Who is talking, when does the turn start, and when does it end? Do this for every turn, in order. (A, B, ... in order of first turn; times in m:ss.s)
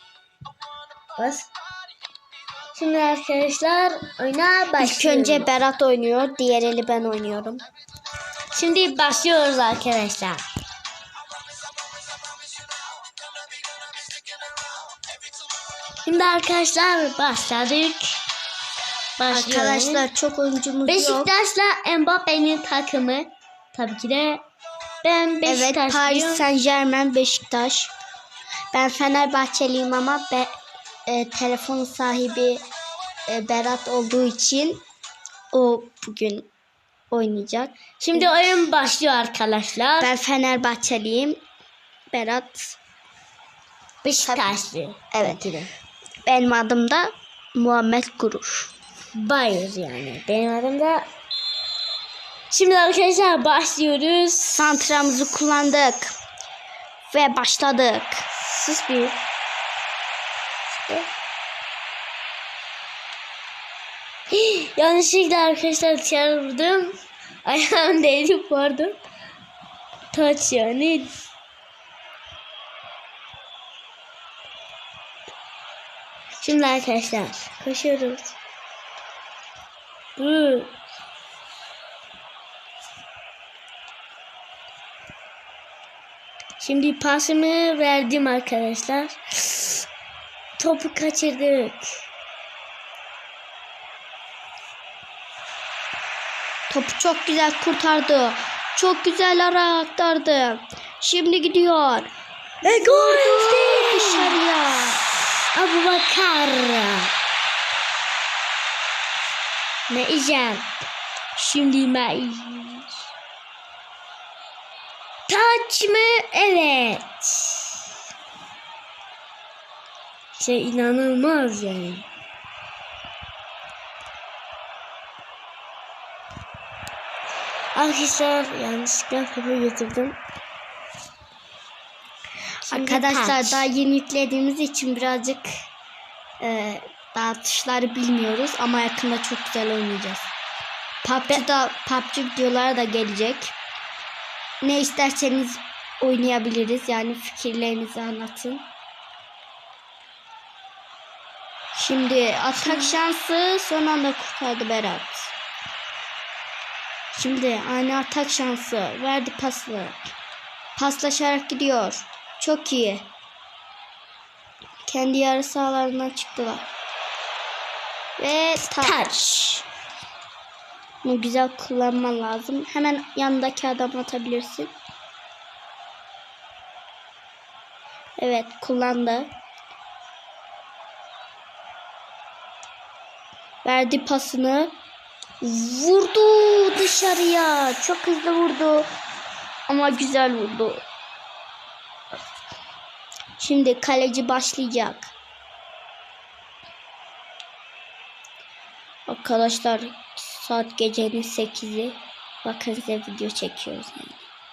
0:01.2-0:01.5 A
0:02.7-0:05.5 A
0:04.8-0:07.6 B
0:08.5-0:10.4 A
0:16.0-0:18.2 A
0:19.2-0:20.0 A
0:19.3-0:21.3 B
0:20.8-0:24.4 A
0:25.0-0:26.4 A
0:25.4-0:27.9 B
0:28.7-0:30.5 B
0:31.1-0:32.6 B
0:33.3-0:34.8 B
0:35.5-0:36.5 B
0:37.1-0:38.3 B
0:38.0-0:40.1 A
0:40.0-0:41.4 B
0:42.1-0:42.8 B
0:44.0-0:45.7 A
0:45.1-0:45.4 B
0:46.2-0:48.7 B
0:49.1-0:51.1 A
0:52.5-0:54.8 A
0:54.5-0:56.1 B
0:57.1-0:59.1 B
1:04.3-1:09.0 A
1:10.1-1:11.1 A
1:16.4-1:18.3 A
1:20.2-1:20.7 A
1:26.6-1:29.8 A
1:30.6-1:31.9 A
1:36.7-1:42.1 B
1:42.6-1:44.4 A
1:42.6-1:45.0 B
1:45.5-1:47.1 A
1:49.9-1:50.6 A
1:51.4-1:52.9 A
1:55.3-1:57.8 A
2:00.4-2:02.0 A
2:07.7-2:10.2 A
2:12.6-2:13.6 A
2:12.7-2:15.5 B
2:16.4-2:20.3 B
2:21.0-2:23.5 B
2:24.6-2:28.6 B
2:31.7-2:35.3 B
2:32.6-2:33.0 A
2:37.1-2:40.0 B
2:40.8-2:43.1 B
2:44.9-2:46.6 B
2:48.2-2:49.0 B
2:48.7-2:49.6 A
2:51.0-2:54.7 B
2:58.2-2:59.3 B
3:03.6-3:04.7 B
3:05.4-3:08.9 B
3:09.7-3:10.8 B
3:13.4-3:15.1 B
3:19.1-3:24.2 B